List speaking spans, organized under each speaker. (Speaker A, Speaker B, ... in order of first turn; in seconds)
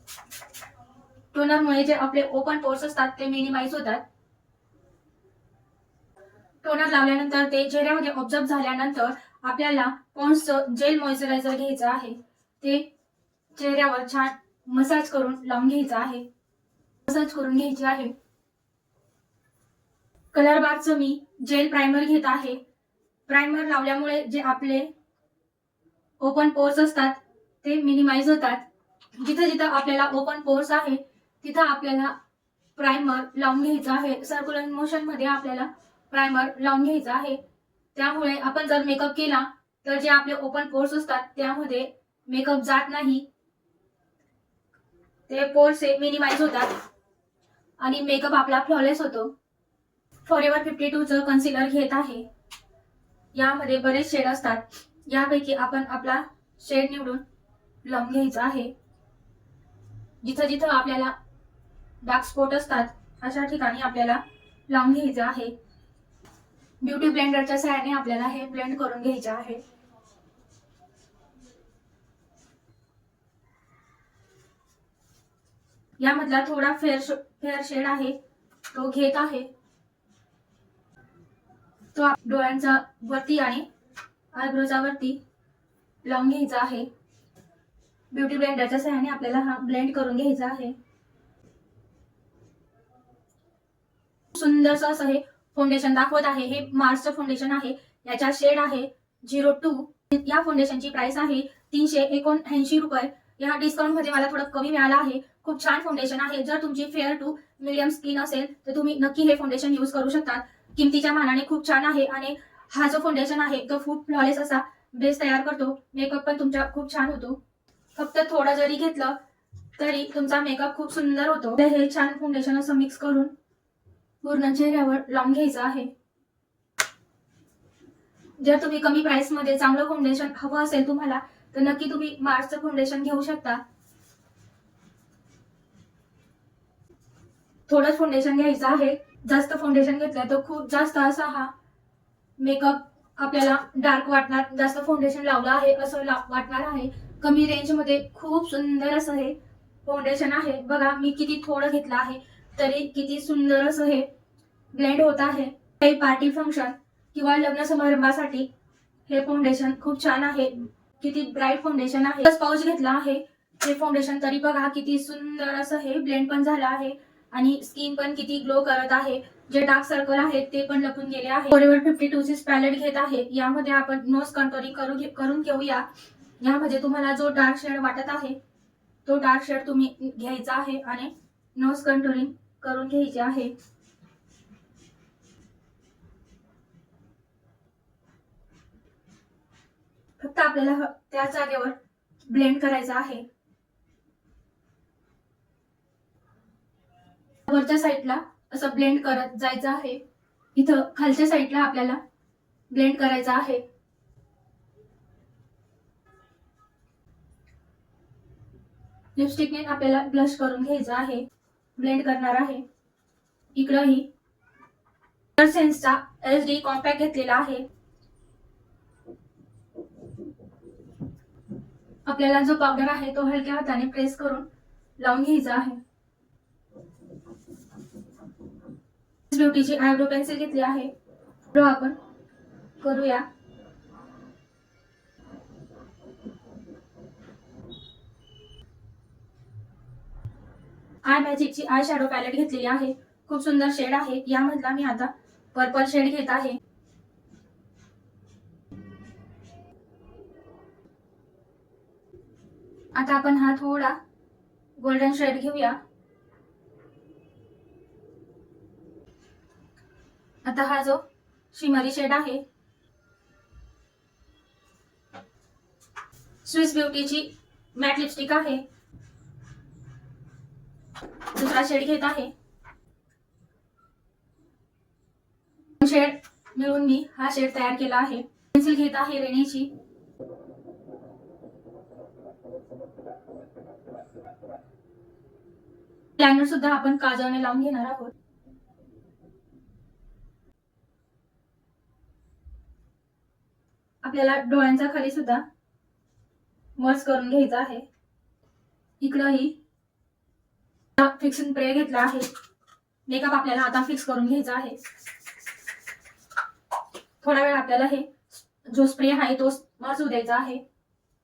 Speaker A: 1.3-4.0, 6.6-12.9, 13.5-16.2, 17.0-18.1, 20.3-22.6, 23.3-24.9, 26.2-32.1, 32.8-37.4, 37.9-43.2, 45.3-46.7, 47.8-49.3, 50.2-52.3, 53.3-57.2, 57.8-58.7, 60.2-61.1, 62.0-65.5, 66.8-69.6, 76.0-78.2, 78.7-79.5, 81.9-83.6, 84.3-85.2, 86.0-86.9, 88.1-90.8, 94.3-117.4, 117.9-119.2, 119.8-123.3, 124.2-125.9, 128.4-133.6, 137.7-141.5, 142.4-154.1, 154.7-158.5, 159.1-175.9, 176.4-178.4, 179.0-183.5, 190.2-193.2, 197.4-200.0, 200.5-202.0, 202.7-203.6, 209.2-212.6, 213.5-214.1, 215.3-217.7, 222.0-224.5, 225.0-225.8, 229.3-230.9, 231.5-232.0, 232.8-233.2, 241.0-246.6, 252.9-254.0, 254.8-255.8, 260.4-262.4, 266.4-268.6, 271.2-272.3, 275.8-279.7, 286.2-288.1, 294.0-295.4, 296.8-297.9, 299.0-299.6, 300.9-302.3, 303.1-304.8, 307.2-308.1, 308.6-310.6